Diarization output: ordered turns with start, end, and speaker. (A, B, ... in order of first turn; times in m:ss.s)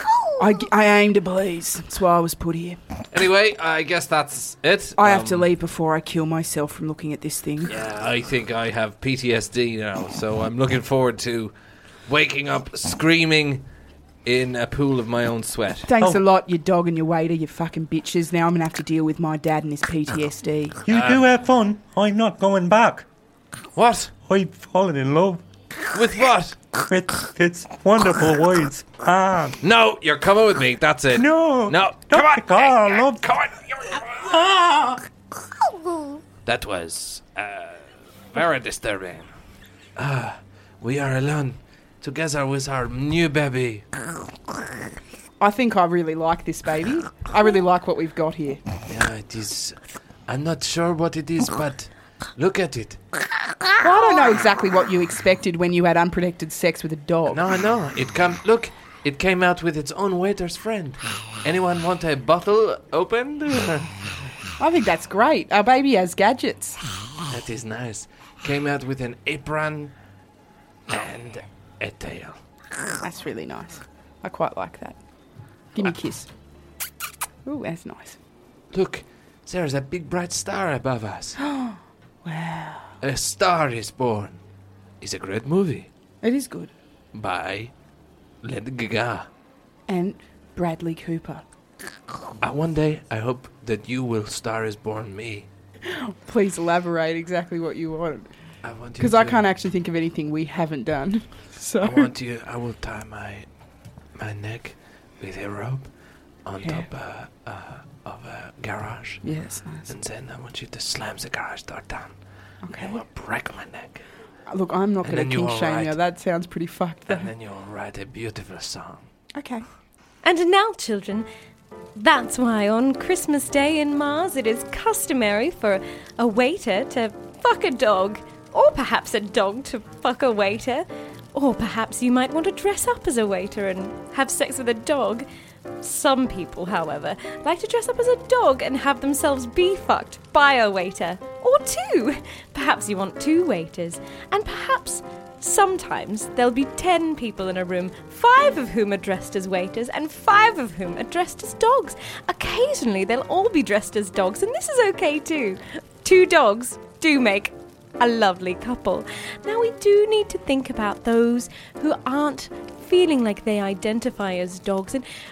0:00.4-0:02.8 A
0:03.1-0:05.5 B
0:05.0-0:07.7 A
0:07.7-0:11.5 B
0:12.1-0:13.6 B
0:14.2-0:15.9 B
0:15.9-0:20.8 A
0:20.9-0:21.2 B
0:20.9-0:23.1 C
0:23.8-0:24.1 B
0:24.3-0:25.4 C
0:25.9-0:26.6 B
0:26.8-0:29.6 C
0:29.6-0:34.4 B
0:31.1-0:33.3 C
0:34.3-0:35.0 C
0:36.4-0:39.3 B
0:40.0-0:43.8 B
0:45.4-0:48.6 A
0:48.9-0:53.0 B
0:53.8-0:57.4 A
0:57.3-1:03.9 B
1:04.6-1:06.8 A
1:07.3-1:09.9 B
1:10.9-1:12.4 B
1:13.0-1:15.0 A
1:15.7-1:16.3 A
1:17.4-1:18.2 A
1:18.7-1:21.4 B
1:21.4-1:22.9 A
1:23.0-1:24.4 B
1:25.0-1:25.9 B
1:26.2-1:26.7 A
1:27.1-1:27.7 B
1:28.4-1:29.3 B
1:29.9-1:31.4 A
1:32.4-1:35.5 B
1:35.9-1:38.3 A
1:38.6-1:39.5 B
1:39.0-1:42.1 A
1:41.8-1:43.5 B
1:44.2-1:45.9 B
1:46.4-1:49.2 B
1:46.6-1:46.9 A
1:49.2-1:49.9 A
1:49.9-1:52.2 B
1:52.6-1:53.0 A
1:52.7-1:54.0 B
1:54.5-1:57.3 A
1:55.0-1:56.0 B
1:57.1-1:59.1 B
1:59.4-1:59.6 A
2:00.2-2:01.3 D
2:02.0-2:15.3 D
2:15.8-2:45.0 D